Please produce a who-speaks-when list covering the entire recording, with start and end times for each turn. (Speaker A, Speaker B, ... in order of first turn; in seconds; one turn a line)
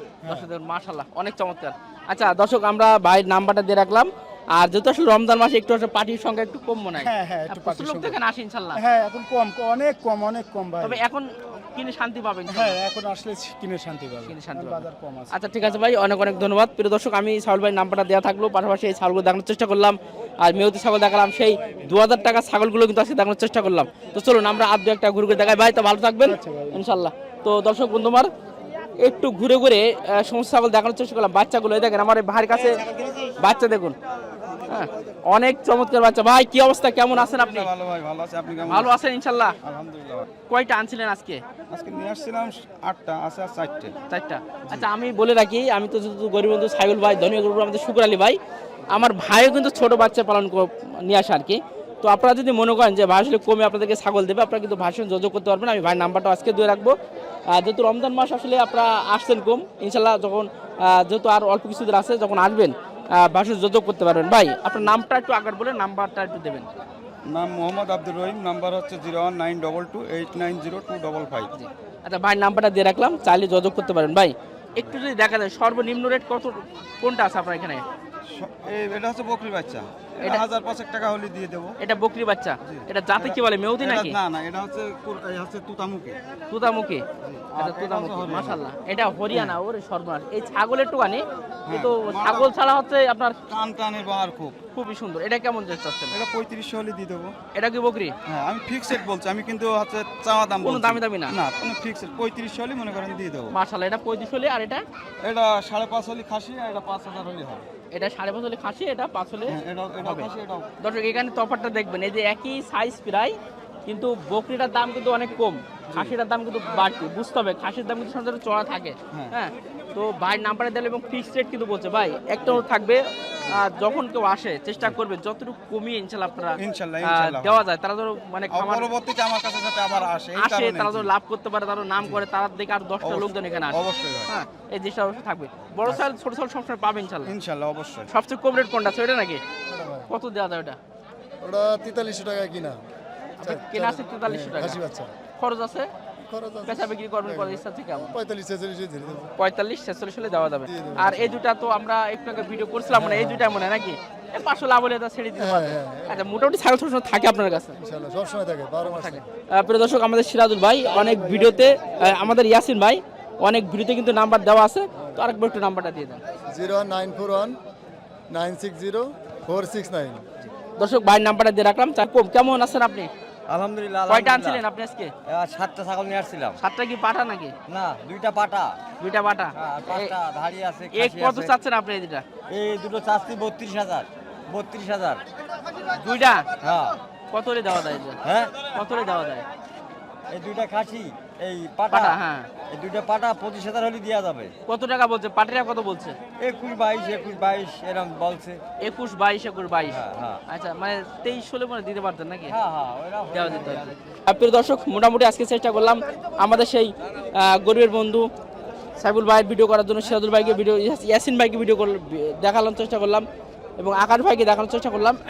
Speaker A: 0.3-8.8
Speaker B: 7.0-8.2
Speaker B: 8.8-11.0
Speaker A: 10.8-12.8
Speaker B: 12.5-15.3
Speaker A: 14.3-28.3
Speaker B: 26.2-26.8
Speaker A: 29.0-32.8
Speaker A: 33.4-34.0
Speaker A: 34.7-37.7
Speaker C: 37.1-39.0
Speaker A: 38.7-39.5
Speaker C: 39.6-40.2
Speaker A: 40.5-41.4
Speaker C: 41.7-44.0
Speaker A: 44.1-48.4
Speaker A: 48.9-56.9
Speaker A: 57.5-66.7
Speaker C: 67.3-71.5
Speaker A: 71.5-77.8
Speaker C: 78.3-81.8
Speaker A: 81.8-84.2
Speaker C: 82.6-86.2
Speaker A: 86.5-87.0
Speaker C: 87.2-88.6
Speaker A: 87.6-93.3
Speaker C: 89.3-89.6
Speaker C: 91.7-92.5
Speaker C: 93.5-94.6
Speaker A: 94.7-96.1
Speaker C: 96.1-97.3
Speaker A: 97.5-98.1
Speaker C: 98.3-103.5
Speaker A: 100.6-101.3
Speaker A: 103.5-104.8
Speaker C: 105.2-107.6
Speaker A: 107.9-128.9
Speaker C: 109.5-110.7
Speaker C: 115.9-116.2
Speaker C: 126.6-127.7
Speaker C: 128.5-131.1
Speaker A: 130.3-137.3
Speaker C: 133.0-134.3
Speaker C: 137.2-138.1
Speaker A: 138.1-139.4
Speaker D: 139.7-140.1
Speaker A: 140.1-140.8
Speaker D: 141.4-142.8
Speaker A: 143.4-144.8
Speaker D: 143.4-145.1
Speaker A: 145.4-145.9
Speaker D: 146.2-149.3
Speaker A: 146.6-148.1
Speaker A: 149.4-157.8
Speaker D: 150.7-151.4
Speaker D: 153.0-153.5
Speaker D: 155.3-156.3
Speaker D: 157.8-159.3
Speaker A: 158.8-166.2
Speaker B: 161.0-162.2
Speaker D: 166.5-167.6
Speaker D: 168.3-170.3
Speaker A: 170.8-173.1
Speaker E: 173.5-174.6
Speaker A: 174.1-175.1
Speaker E: 175.2-176.6
Speaker A: 176.6-177.5
Speaker E: 177.7-178.8
Speaker A: 179.0-180.1
Speaker E: 179.5-181.5
Speaker A: 180.9-182.2
Speaker E: 182.5-185.2
Speaker A: 185.9-186.5
Speaker E: 186.6-187.0
Speaker A: 187.3-188.2
Speaker E: 188.2-188.6
Speaker A: 188.7-189.4
Speaker E: 190.3-194.5
Speaker A: 191.9-192.5
Speaker A: 194.7-196.2
Speaker E: 196.4-198.6
Speaker A: 198.8-202.6
Speaker E: 199.9-200.4
Speaker E: 202.5-204.0
Speaker A: 203.3-208.3
Speaker A: 209.0-213.2
Speaker A: 213.8-215.2